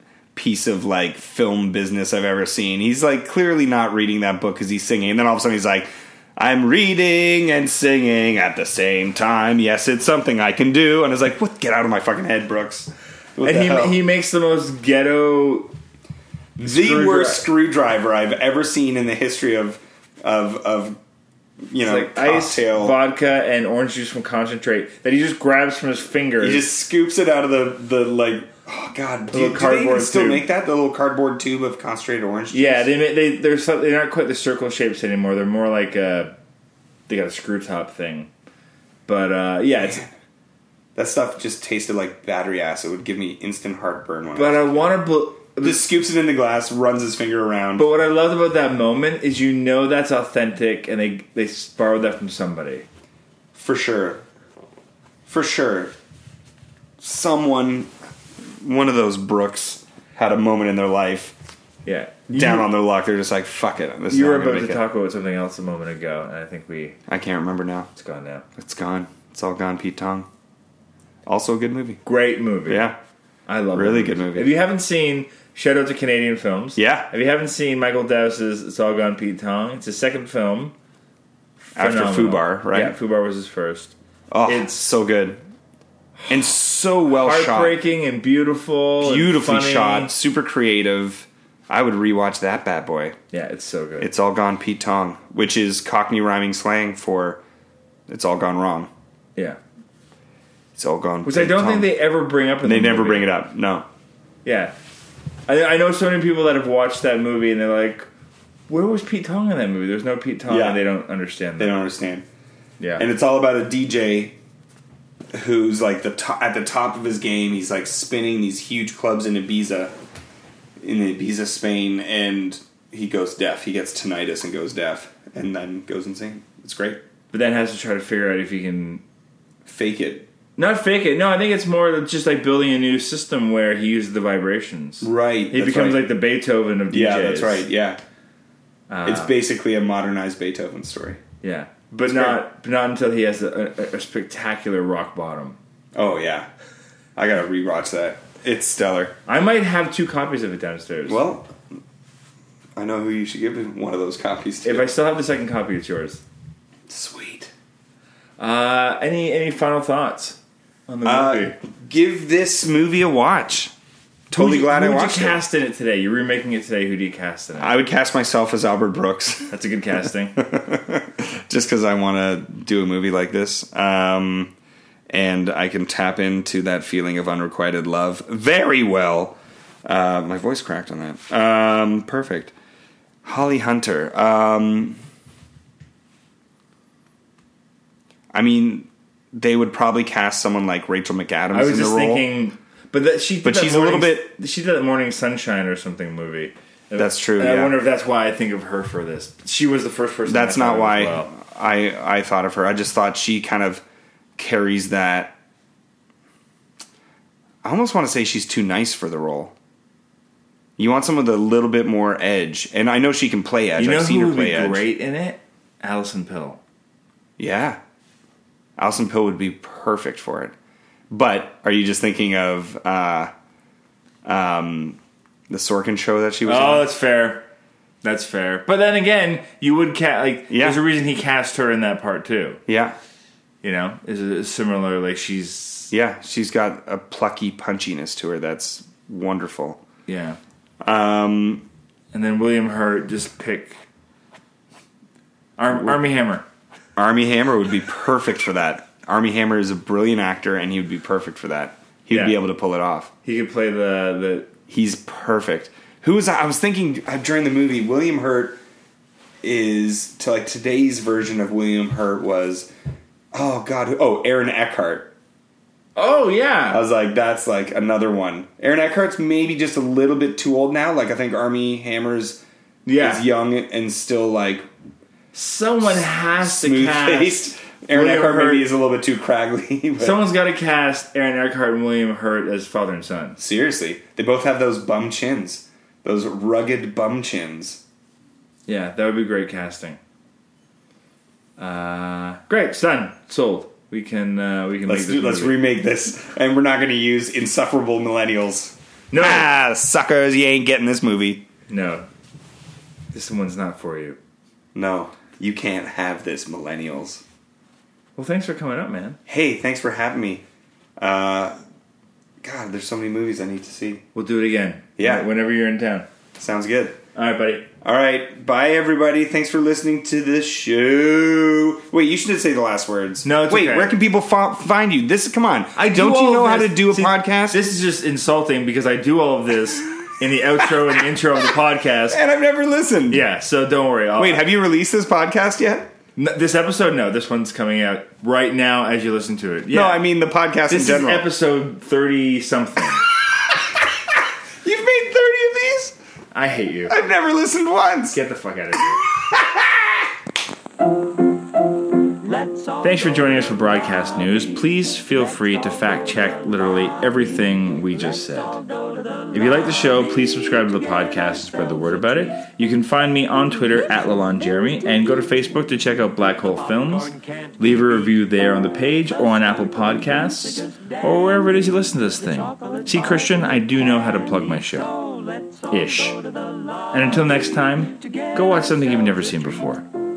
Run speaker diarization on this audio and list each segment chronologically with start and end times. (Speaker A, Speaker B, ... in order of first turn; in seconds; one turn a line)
Speaker A: 0.3-14.0
Speaker B: 13.4-15.7
Speaker A: 16.6-21.0
Speaker B: 16.6-17.5
Speaker A: 21.7-23.0
Speaker B: 21.8-26.6
Speaker A: 26.4-32.9
Speaker B: 29.3-30.5
Speaker B: 32.5-36.3
Speaker B: 37.1-38.3
Speaker B: 39.1-40.0
Speaker A: 41.0-44.9
Speaker B: 44.4-45.9
Speaker A: 45.6-47.9
Speaker B: 47.8-52.9
Speaker A: 53.5-54.2
Speaker A: 55.3-55.9
Speaker A: 57.0-57.9
Speaker A: 58.6-61.4
Speaker B: 61.9-62.7
Speaker A: 62.3-64.8
Speaker B: 64.1-67.0
Speaker A: 67.1-67.9
Speaker B: 68.0-68.5
Speaker A: 68.5-70.3
Speaker A: 71.3-72.0
Speaker B: 72.0-72.9
Speaker A: 72.7-73.0
Speaker B: 73.5-80.7
Speaker A: 73.7-74.5
Speaker A: 76.8-77.1
Speaker B: 81.7-83.9
Speaker A: 81.8-83.0
Speaker A: 84.3-85.4
Speaker B: 84.5-84.8
Speaker B: 86.2-86.5
Speaker A: 86.3-87.8
Speaker B: 87.1-90.1
Speaker A: 89.0-93.2
Speaker B: 93.3-94.1
Speaker A: 94.0-97.4
Speaker A: 98.1-98.9
Speaker A: 100.8-101.9
Speaker B: 101.2-103.3
Speaker A: 102.6-103.9
Speaker B: 104.5-104.7
Speaker B: 105.5-108.1
Speaker B: 108.7-111.8
Speaker A: 110.5-110.8
Speaker A: 111.6-112.2
Speaker B: 112.8-113.1
Speaker A: 113.0-114.3
Speaker A: 115.3-119.9
Speaker A: 120.8-127.0
Speaker B: 127.3-129.0
Speaker A: 129.7-130.3
Speaker B: 130.6-137.7
Speaker A: 135.0-136.1
Speaker A: 136.9-138.0
Speaker B: 138.9-139.3
Speaker A: 139.1-141.2
Speaker B: 141.4-145.6
Speaker A: 142.0-142.4
Speaker A: 145.9-146.5
Speaker A: 147.2-149.2
Speaker B: 149.3-151.3
Speaker A: 151.1-151.5
Speaker A: 152.8-154.9
Speaker B: 154.6-156.2
Speaker A: 156.9-157.5
Speaker B: 158.4-160.4
Speaker B: 160.9-161.6
Speaker A: 161.1-163.7
Speaker A: 164.3-165.4
Speaker B: 164.3-167.8
Speaker A: 167.6-169.6
Speaker B: 169.5-170.4
Speaker A: 170.4-174.5
Speaker A: 175.1-182.5
Speaker A: 183.2-185.0
Speaker A: 188.3-192.3
Speaker B: 191.5-201.3
Speaker A: 193.4-194.3
Speaker A: 197.0-197.8
Speaker A: 200.3-203.8
Speaker A: 204.4-205.3
Speaker A: 207.6-209.5
Speaker A: 210.8-214.8
Speaker B: 213.8-216.6
Speaker A: 217.4-217.8
Speaker A: 218.8-220.6
Speaker A: 221.1-223.3
Speaker A: 224.2-225.0
Speaker A: 225.5-226.9
Speaker B: 226.4-227.4
Speaker B: 228.0-232.6
Speaker A: 230.5-230.8
Speaker A: 232.7-233.0
Speaker B: 233.6-235.9
Speaker A: 235.9-239.8
Speaker B: 240.1-240.4
Speaker A: 240.8-241.7
Speaker B: 242.1-243.8
Speaker B: 245.6-246.4
Speaker A: 247.0-253.1
Speaker B: 252.1-252.4
Speaker B: 253.2-254.5
Speaker A: 254.7-258.6
Speaker A: 259.4-262.7
Speaker A: 263.3-265.1
Speaker B: 266.0-266.8
Speaker A: 266.7-272.4
Speaker B: 272.9-273.2
Speaker A: 273.0-274.7
Speaker B: 275.3-278.7
Speaker A: 275.8-280.2
Speaker B: 280.0-283.4
Speaker A: 283.4-287.8
Speaker B: 288.7-290.0
Speaker B: 291.6-295.6
Speaker A: 294.9-301.4
Speaker B: 299.1-299.5
Speaker B: 301.7-302.1
Speaker B: 303.1-304.2
Speaker A: 304.8-307.2
Speaker B: 308.2-309.2
Speaker A: 309.3-310.4
Speaker A: 311.0-311.6
Speaker A: 312.4-314.0
Speaker B: 314.1-316.1
Speaker A: 315.0-315.3
Speaker A: 316.4-317.0
Speaker B: 317.1-317.7
Speaker A: 317.8-327.6
Speaker B: 323.2-323.9
Speaker B: 325.8-332.2
Speaker A: 330.6-330.9
Speaker A: 332.1-333.3
Speaker B: 333.1-334.4
Speaker A: 334.2-335.9
Speaker B: 336.2-340.0
Speaker A: 339.7-341.3
Speaker B: 340.7-343.0
Speaker A: 343.3-345.9
Speaker B: 346.3-347.0
Speaker A: 346.9-348.2
Speaker B: 348.1-349.0
Speaker A: 349.0-350.1
Speaker C: 352.2-353.7
Speaker B: 352.8-358.6
Speaker C: 355.4-356.0
Speaker C: 358.1-360.1
Speaker B: 359.3-374.9
Speaker C: 360.9-361.3
Speaker C: 372.3-377.2
Speaker B: 375.7-376.2
Speaker B: 376.9-379.9
Speaker C: 378.0-379.5